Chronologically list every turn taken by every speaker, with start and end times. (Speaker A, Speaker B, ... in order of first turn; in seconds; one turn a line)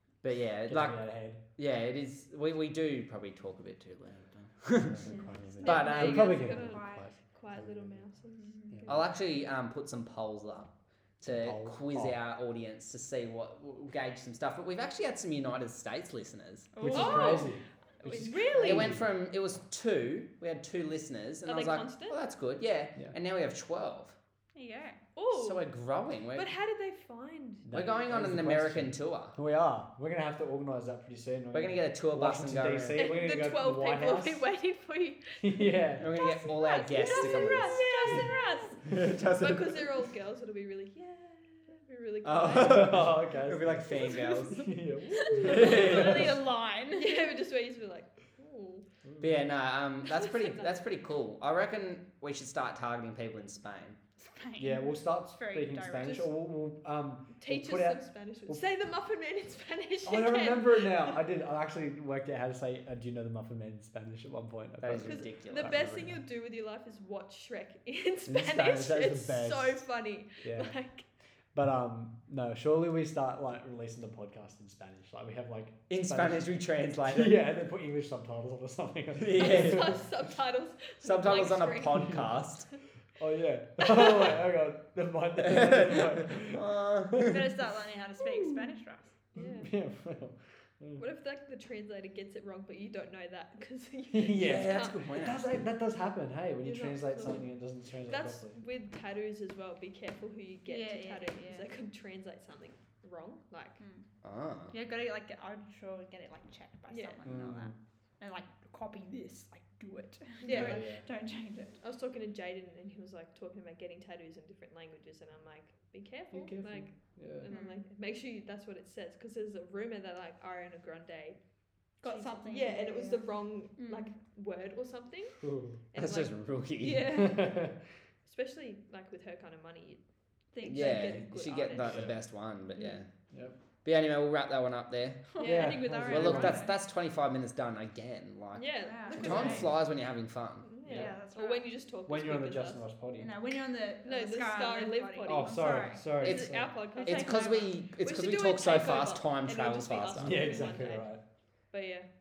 Speaker A: 0.2-5.1
Speaker B: 0.7-1.4
Speaker B: 4.8-8.0
Speaker C: 5.0-7.0
Speaker A: 5.6-6.4
Speaker D: 5.6-9.0
Speaker C: 8.4-8.7
Speaker B: 8.7-9.1
Speaker A: 8.9-16.7
Speaker B: 11.2-12.2
Speaker C: 16.7-17.5
Speaker B: 16.8-19.1
Speaker D: 16.9-17.5
Speaker D: 18.1-18.9
Speaker C: 18.1-18.6
Speaker A: 18.6-24.1
Speaker D: 21.4-22.2
Speaker C: 24.5-25.0
Speaker D: 25.1-25.6
Speaker A: 25.3-26.5
Speaker D: 26.3-27.7
Speaker B: 27.6-34.4
Speaker A: 27.7-29.4
Speaker A: 31.5-33.1
Speaker D: 33.0-38.7
Speaker B: 35.4-36.1
Speaker A: 36.0-38.0
Speaker C: 36.8-38.8
Speaker A: 38.8-39.9
Speaker D: 39.3-43.0
Speaker A: 42.2-44.6
Speaker B: 42.6-46.4
Speaker C: 43.9-47.3
Speaker A: 45.4-46.3
Speaker D: 45.4-46.2
Speaker D: 46.9-48.9
Speaker B: 49.0-49.3
Speaker A: 49.2-54.0
Speaker D: 50.0-50.8
Speaker C: 54.2-56.3
Speaker B: 54.6-58.6
Speaker D: 57.4-61.2
Speaker B: 60.0-66.1
Speaker A: 64.8-66.0
Speaker D: 65.0-71.0
Speaker B: 68.2-69.8
Speaker B: 70.4-70.7
Speaker B: 71.5-76.5
Speaker A: 75.9-77.3
Speaker B: 77.0-80.0
Speaker A: 79.1-79.9
Speaker D: 79.3-82.1
Speaker A: 81.0-82.7
Speaker B: 82.0-82.3
Speaker B: 83.2-87.4
Speaker D: 83.8-84.3
Speaker A: 85.4-87.5
Speaker C: 87.2-89.1
Speaker D: 89.3-89.7
Speaker B: 89.3-91.0
Speaker D: 91.0-95.1
Speaker B: 94.1-98.6
Speaker A: 94.3-95.4
Speaker D: 96.6-97.5
Speaker D: 98.1-103.8
Speaker C: 100.7-101.7
Speaker C: 103.8-104.0
Speaker A: 104.2-104.7
Speaker C: 104.7-111.8
Speaker D: 106.9-107.2
Speaker B: 107.2-107.7
Speaker D: 110.4-110.8
Speaker B: 110.5-111.0
Speaker D: 111.8-121.4
Speaker B: 116.3-117.5
Speaker C: 117.5-117.8
Speaker C: 122.0-124.1
Speaker D: 122.0-125.4
Speaker B: 125.4-125.8
Speaker D: 125.9-126.3
Speaker A: 125.9-127.2
Speaker C: 126.8-127.5
Speaker B: 127.1-127.8
Speaker D: 128.2-130.0
Speaker D: 130.5-132.1
Speaker C: 130.6-131.2
Speaker A: 130.6-133.1
Speaker B: 131.8-132.1
Speaker D: 132.7-133.0
Speaker A: 133.8-135.3
Speaker C: 135.3-136.7
Speaker B: 135.4-136.7
Speaker A: 136.1-140.7
Speaker D: 138.5-139.7
Speaker C: 138.8-139.7
Speaker B: 139.2-139.7
Speaker D: 140.6-142.8
Speaker B: 140.8-141.1
Speaker C: 140.8-141.7
Speaker B: 142.1-143.3
Speaker C: 143.2-146.1
Speaker D: 144.0-145.6
Speaker A: 145.2-146.5
Speaker B: 145.7-146.7
Speaker D: 146.2-151.1
Speaker C: 146.9-147.7
Speaker A: 147.0-150.5
Speaker B: 150.1-151.2
Speaker D: 151.7-152.1